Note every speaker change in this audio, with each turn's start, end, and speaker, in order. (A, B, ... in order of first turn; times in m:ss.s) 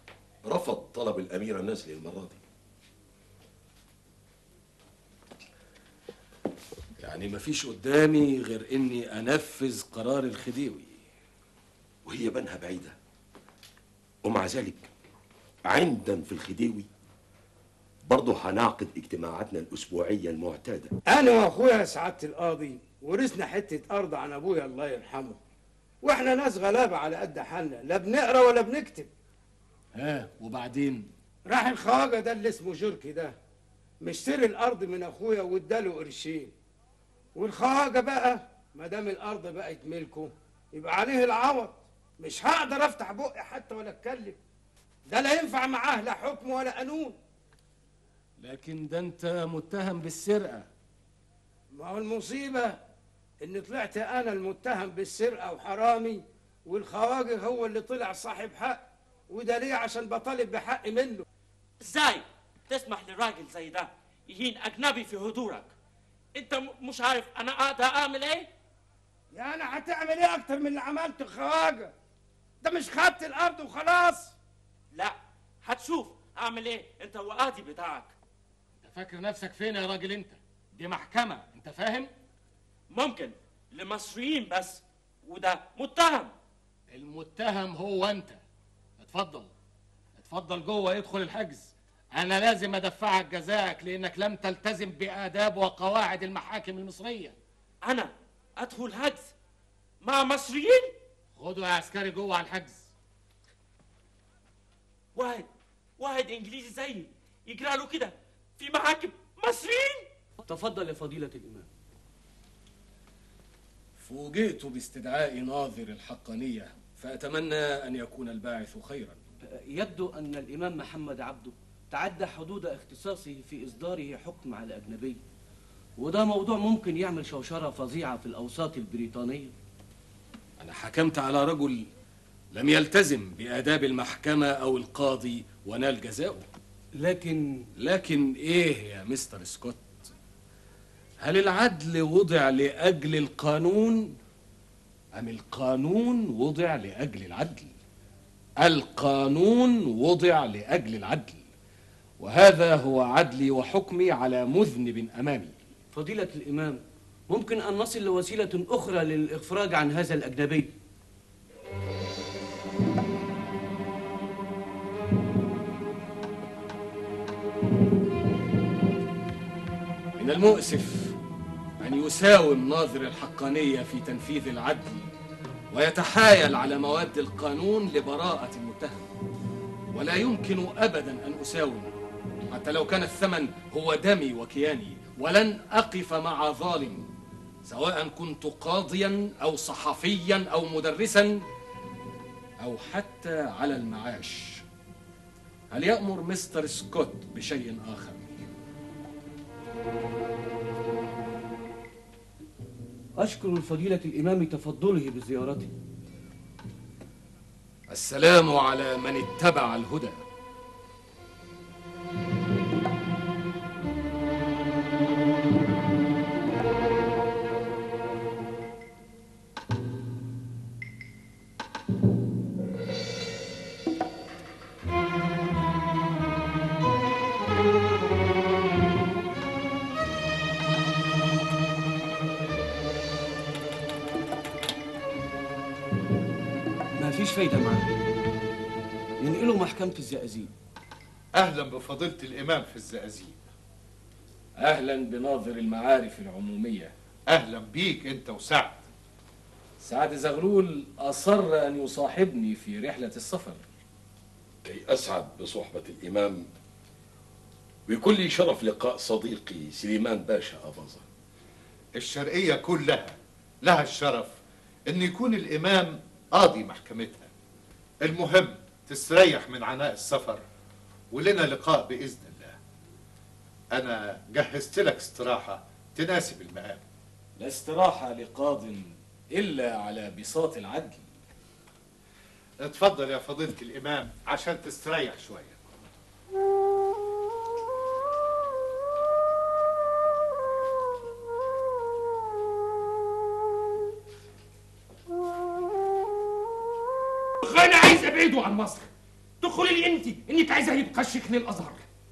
0:00.5-0:02.4 A
0:07.0-0:11.0 B
0:12.0-0:13.0 A
0:14.2-0:14.9 A
0:15.6-0:16.9 A
0:18.0-0:20.9 A
0:21.1-0:25.4 C
0:26.0-0:29.1 C
0:29.9-0:31.1 B
0:31.5-0:33.3 C
0:34.0-0:36.5 C
0:37.4-0:44.4 C
0:45.1-0:47.2 C
0:48.4-0:50.7 B
0:51.7-0:52.8 C
0:53.4-1:01.2 C
1:01.8-1:05.7 D
1:06.4-1:08.5 D
1:09.3-1:11.9 C
1:12.6-1:14.3 C
1:14.9-1:18.2 D
1:18.8-1:22.1 B
1:22.9-1:26.3 D
1:26.9-1:28.4 B
1:29.0-1:29.5 B
1:30.2-1:37.4 B
1:37.8-1:39.3 D
1:40.0-1:40.9 D
1:41.4-1:42.9 B
1:45.2-1:50.0 D
1:50.5-1:51.7 E
1:54.0-1:59.2 B
1:59.7-2:05.2 E
2:06.0-2:09.5 E
2:10.6-2:11.9 B
2:12.5-2:16.4 B
2:16.9-2:17.7 E
2:17.8-2:20.1 B
2:21.2-2:24.2 B
2:25.2-2:27.7 B
2:28.6-2:31.5 B
2:32.2-2:35.6 B
2:35.9-2:40.7 E
2:50.2-2:51.2 B
2:51.8-2:55.1 B
2:55.7-2:59.1 B
2:59.9-3:01.9 B
3:02.5-3:07.1 B
3:07.6-3:11.4 B
3:12.6-3:14.6 B
3:15.7-3:18.5 B
3:23.2-3:25.7 E
3:27.9-3:30.2 B
3:57.0-3:57.9 E
3:59.2-4:00.5 E
4:01.4-4:03.5 F
4:04.6-4:06.9 B
4:07.3-4:08.9 F
4:09.8-4:13.6 B
4:14.6-4:16.5 A
4:17.9-4:21.1 A
4:22.0-4:24.4 F
4:24.9-4:27.3 F
4:28.0-4:30.4 F
4:31.1-4:32.6 F
4:33.8-4:36.8 F
4:37.4-4:41.1 B
4:42.6-4:45.6 F
4:57.4-4:58.9 G
4:59.4-5:01.8 G